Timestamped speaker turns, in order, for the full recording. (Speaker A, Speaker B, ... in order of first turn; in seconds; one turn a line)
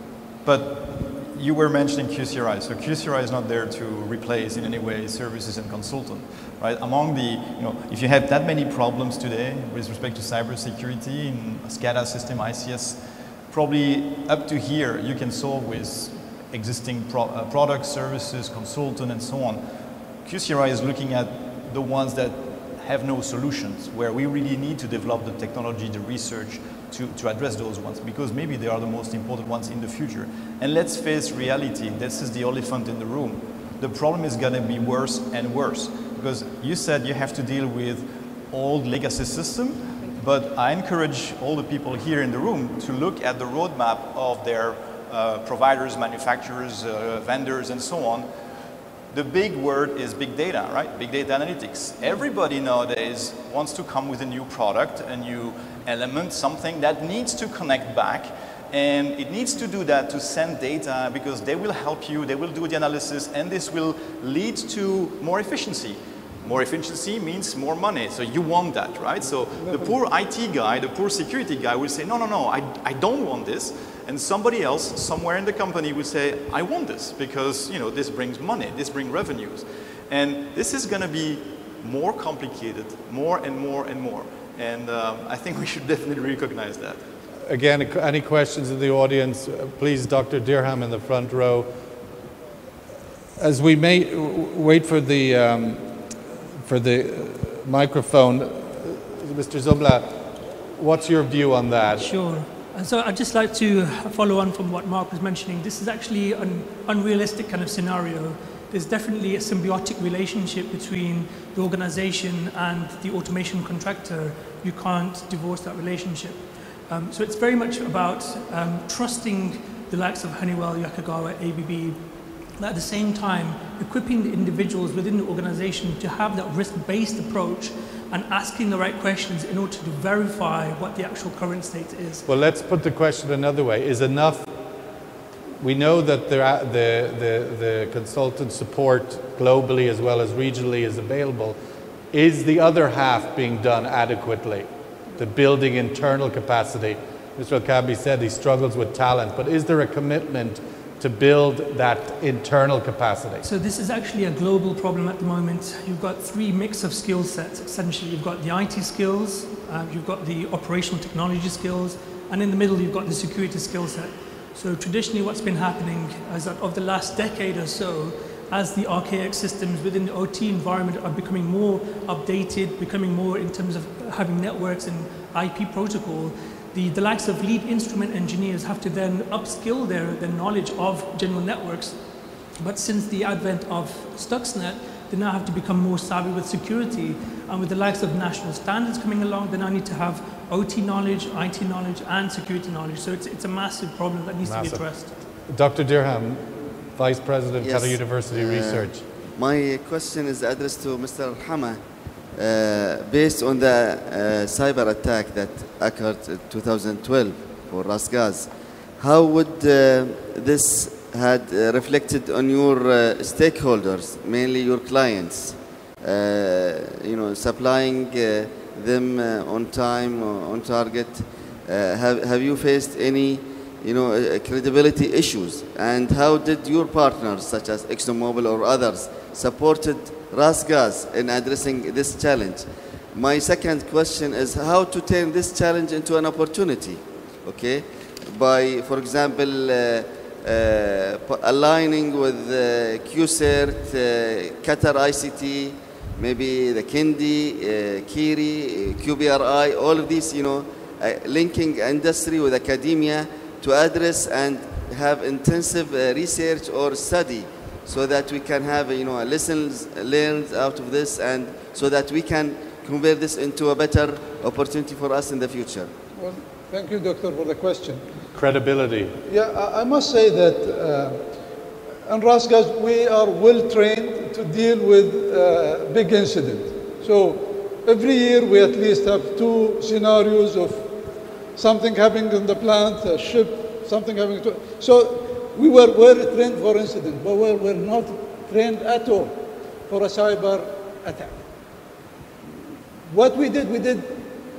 Speaker A: 0.4-19.6
Speaker A: 20.2-48.3
Speaker A: 49.1-87.0
Speaker B: 69.5-70.0
Speaker C: 87.5-91.7
Speaker C: 93.4-96.1
Speaker C: 96.6-102.1
Speaker D: 102.0-122.0
Speaker D: 122.6-132.2
Speaker C: 132.3-134.5
Speaker C: 135.6-141.6
Speaker C: 142.1-153.4
Speaker D: 153.4-182.0
Speaker D: 182.6-195.2
Speaker C: 194.4-194.8
Speaker C: 195.4-199.0
Speaker E: 197.6-201.8
Speaker E: 202.3-265.9
Speaker B: 266.1-268.0
Speaker C: 268.3-269.1
Speaker B: 269.2-271.2
Speaker B: 272.1-280.9
Speaker B: 281.5-291.4
Speaker B: 293.1-294.2